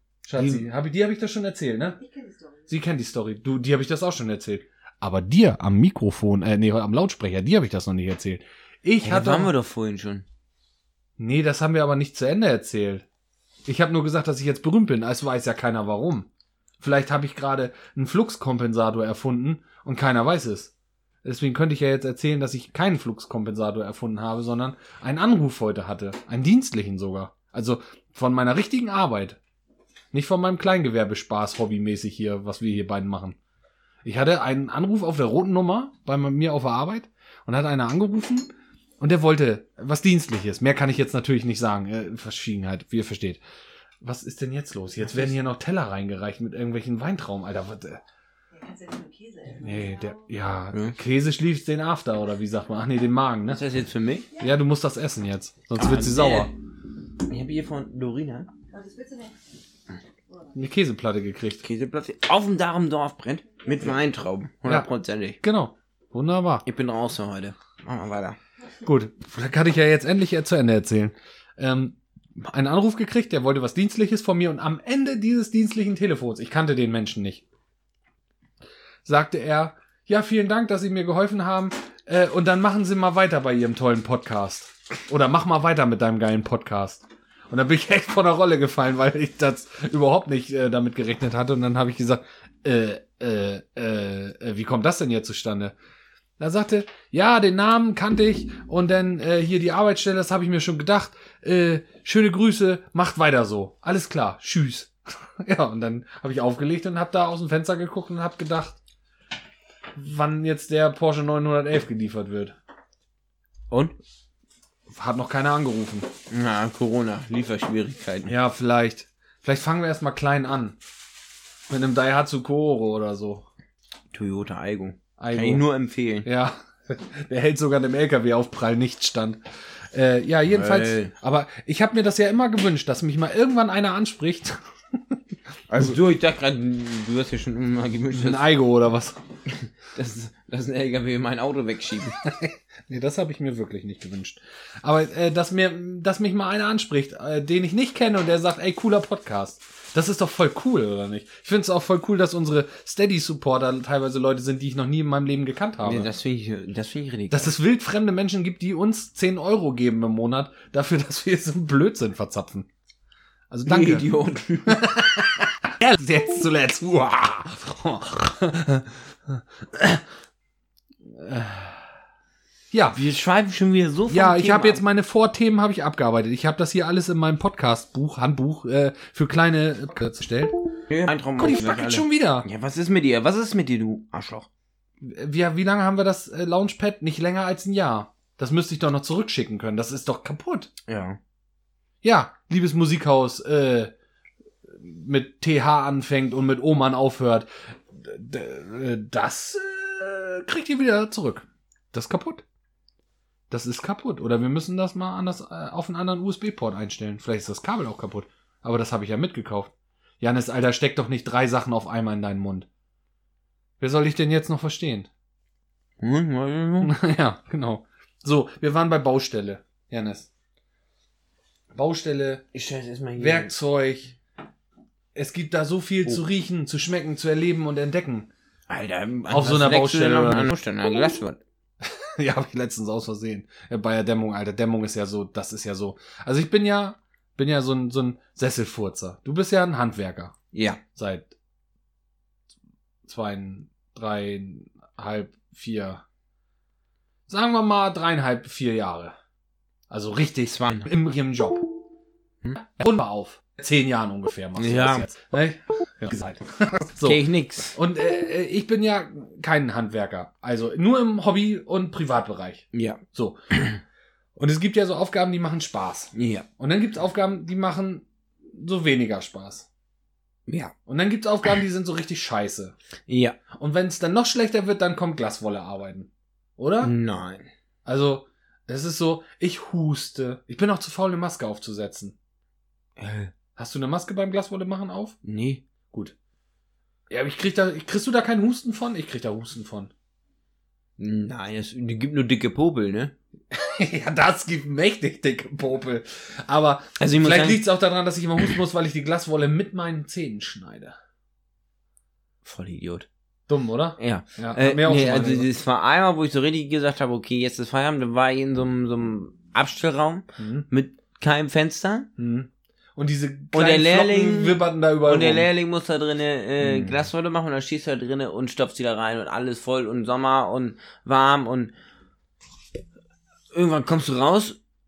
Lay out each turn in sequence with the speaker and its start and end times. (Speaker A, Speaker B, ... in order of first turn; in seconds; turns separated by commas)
Speaker A: 0.2-2.0, Speaker B: 0.4-0.6, Speaker C: 2.0-2.7, Speaker A: 2.7-9.5, Speaker B: 9.0-10.2, Speaker A: 11.2-13.0, Speaker A: 13.7-16.3, Speaker A: 16.8-20.7, Speaker A: 21.2-29.4, Speaker A: 30.1-33.4, Speaker A: 34.0-43.4, Speaker A: 44.0-48.0, Speaker C: 48.5-50.3, Speaker A: 49.5-53.6, Speaker B: 53.5-54.3, Speaker A: 54.4-56.5, Speaker B: 55.7-56.5, Speaker B: 57.2-58.5, Speaker C: 58.7-59.4, Speaker C: 60.3-60.6, Speaker A: 60.5-61.6, Speaker B: 61.6-65.4, Speaker A: 65.4-66.6, Speaker B: 66.6-68.4, Speaker A: 68.8-77.4, Speaker A: 79.0-95.7, Speaker A: 96.4-108.8, Speaker A: 109.9-112.5, Speaker A: 114.9-116.1, Speaker B: 116.3-118.3, Speaker A: 118.2-120.8, Speaker A: 121.7-123.5, Speaker B: 124.1-126.3, Speaker A: 125.2-125.7, Speaker A: 126.2-135.2, Speaker B: 130.5-131.1, Speaker B: 135.7-138.4, Speaker A: 138.1-139.2, Speaker B: 139.5-142.2, Speaker A: 142.2-156.1, Speaker B: 155.8-157.5, Speaker A: 157.3-162.7, Speaker A: 163.5-164.1, Speaker B: 163.7-164.8, Speaker A: 164.7-170.0, Speaker A: 171.1-171.9, Speaker A: 172.7-173.0, Speaker B: 172.9-174.8, Speaker A: 174.1-180.6, Speaker B: 180.9-184.5, Speaker A: 181.3-182.4, Speaker A: 185.0-190.7, Speaker B: 190.9-191.2, Speaker A: 192.0-193.9, Speaker A: 194.7-202.4, Speaker A: 203.5-212.7, Speaker A: 213.8-215.1, Speaker B: 216.0-216.9, Speaker A: 216.8-220.3, Speaker A: 221.7-222.4, Speaker B: 222.5-223.5, Speaker A: 223.2-224.2, Speaker A: 225.1-228.3, Speaker B: 228.7-231.4, Speaker A: 229.3-230.5, Speaker A: 231.8-240.3, Speaker B: 240.5-240.8, Speaker A: 240.9-241.3, Speaker A: 243.1-246.0, Speaker A: 247.3-249.2, Speaker A: 249.9-251.7, Speaker B: 250.5-250.9, Speaker A: 252.6-263.4, Speaker B: 254.6-255.1, Speaker B: 257.0-257.8, Speaker B: 262.7-263.0, Speaker B: 263.5-263.8, Speaker A: 264.4-269.7, Speaker B: 266.1-266.4, Speaker B: 270.5-270.7, Speaker A: 270.9-272.7, Speaker B: 273.1-273.4, Speaker A: 273.5-276.9, Speaker B: 276.8-277.5, Speaker A: 277.9-282.1, Speaker B: 283.0-283.3, Speaker A: 283.6-285.2, Speaker B: 285.2-285.6, Speaker A: 287.1-289.9, Speaker B: 291.0-293.1, Speaker A: 293.5-301.0, Speaker B: 297.0-297.6, Speaker B: 302.4-303.1, Speaker A: 303.5-305.5, Speaker B: 304.0-312.1, Speaker A: 310.4-310.7, Speaker A: 312.2-315.5, Speaker B: 313.5-321.7, Speaker A: 316.6-317.1, Speaker B: 323.5-324.6